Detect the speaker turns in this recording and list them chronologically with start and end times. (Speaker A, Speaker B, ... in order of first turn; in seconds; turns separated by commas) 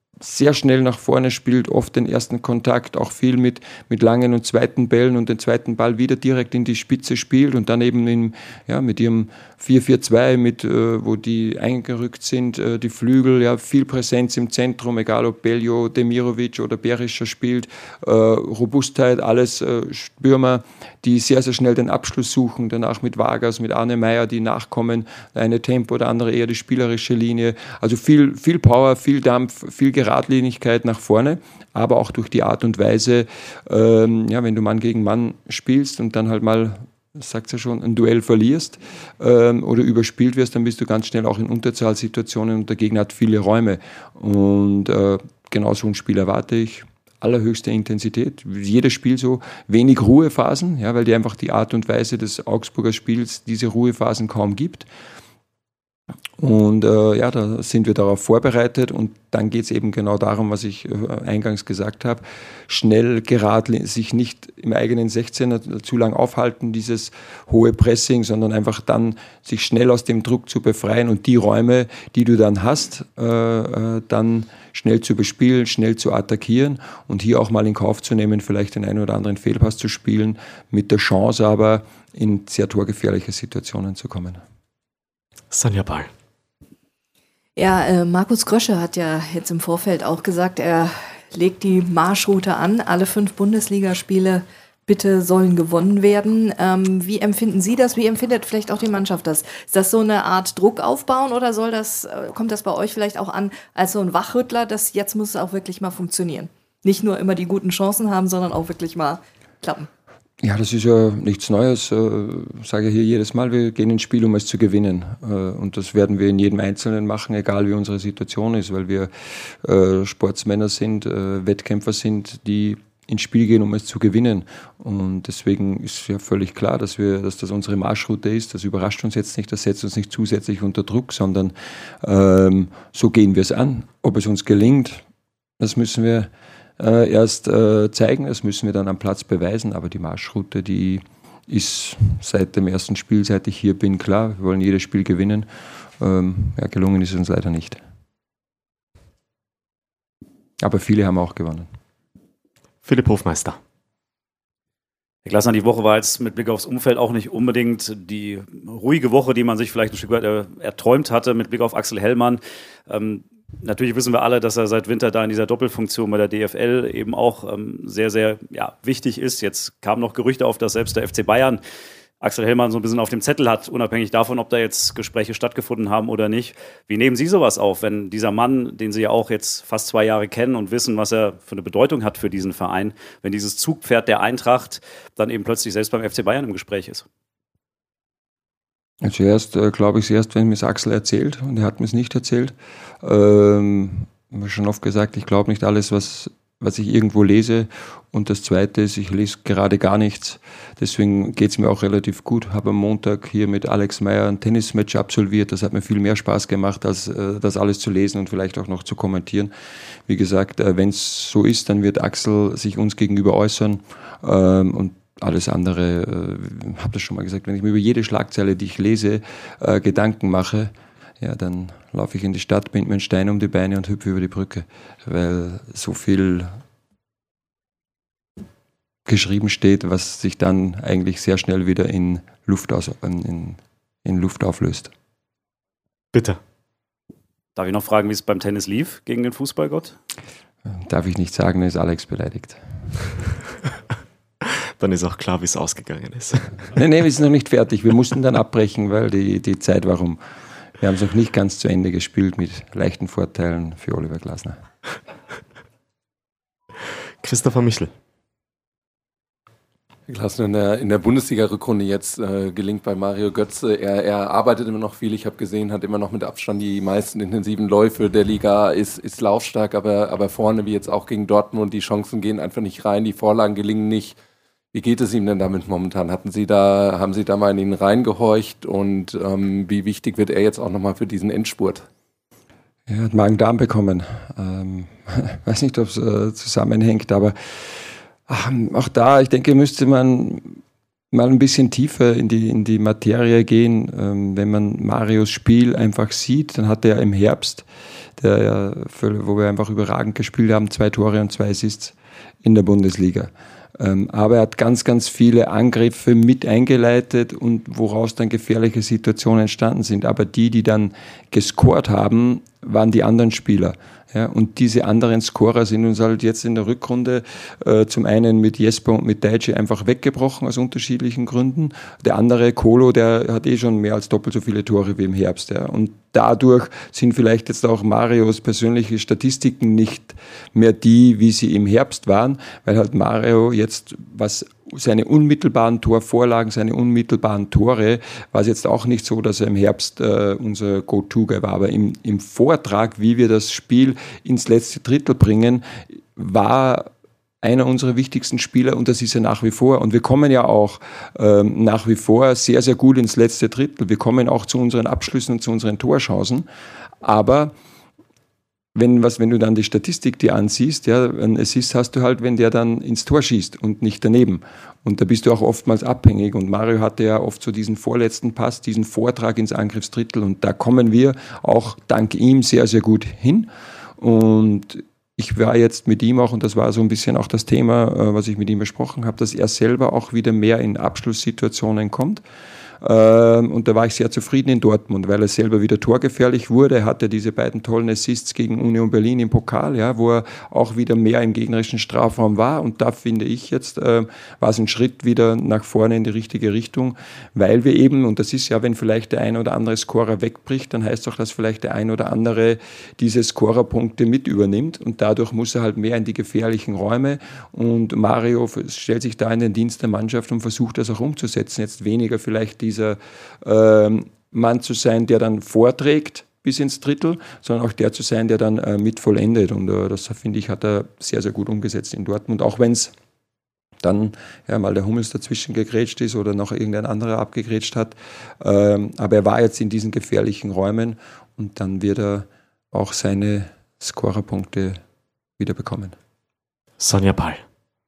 Speaker A: 0.2-54.9, Speaker A: 56.4-84.4, Speaker B: 85.5-86.1, Speaker C: 87.5-109.9, Speaker A: 110.4-119.1, Speaker A: 119.6-135.0, Speaker A: 135.6-145.5, Speaker A: 146.0-147.8, Speaker A: 150.6-151.7, Speaker B: 152.8-153.6, Speaker D: 155.2-171.6, Speaker D: 172.2-187.1, Speaker A: 189.0-209.5, Speaker A: 210.1-226.5, Speaker A: 229.1-234.9, Speaker B: 236.1-236.4, Speaker D: 237.5-239.9, Speaker A: 240.6-242.6, Speaker B: 244.8-246.6, Speaker A: 246.7-250.2, Speaker A: 250.8-254.6, Speaker B: 257.2-257.9, Speaker E: 260.1-274.2, Speaker E: 274.7-281.9, Speaker A: 282.9-287.3, Speaker A: 288.3-290.6, Speaker A: 291.1-297.6, Speaker A: 298.2-346.9, Speaker A: 347.4-356.4, Speaker A: 357.0-357.5, Speaker A: 358.7-382.2, Speaker A: 382.8-422.9, Speaker A: 423.8-434.8, Speaker A: 435.4-435.9, Speaker B: 436.8-437.4